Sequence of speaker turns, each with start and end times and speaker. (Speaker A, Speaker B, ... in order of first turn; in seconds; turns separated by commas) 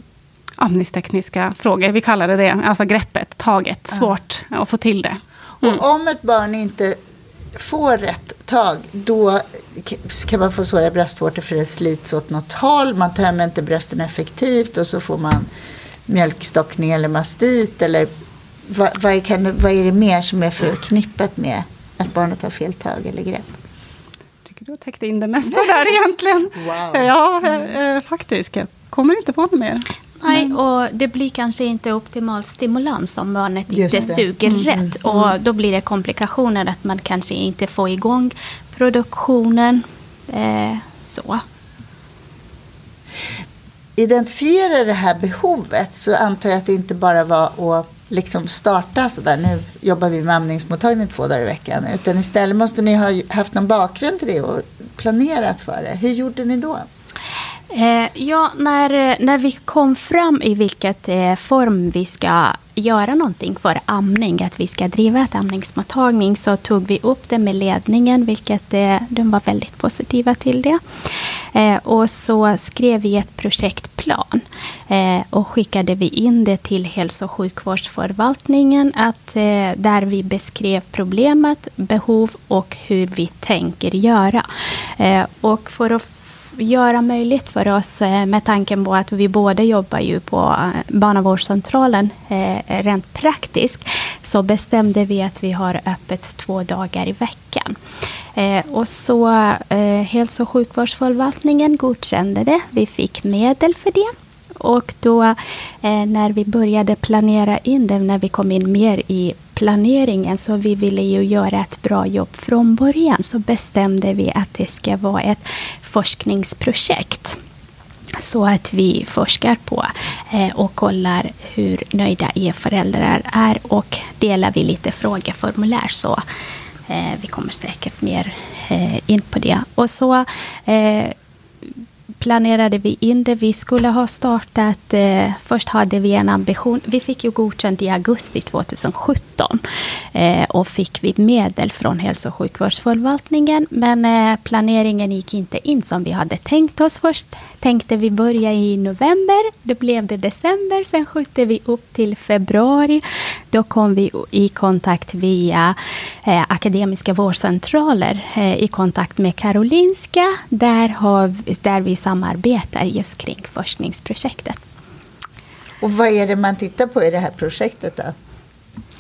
Speaker A: 0.6-5.8, Speaker B: 5.6-7.0, Speaker B: 7.5-15.5, Speaker B: 16.1-18.1, Speaker B: 18.7-23.5, Speaker A: 24.4-30.5, Speaker B: 26.6-27.1, Speaker C: 30.2-41.4, Speaker B: 33.7-34.9, Speaker B: 44.0-56.9, Speaker C: 57.7-70.8, Speaker C: 71.5-97.8, Speaker C: 98.3-117.4, Speaker C: 118.2-126.2, Speaker C: 126.9-131.2, Speaker C: 132.2-139.6, Speaker C: 140.1-164.6, Speaker B: 165.8-168.1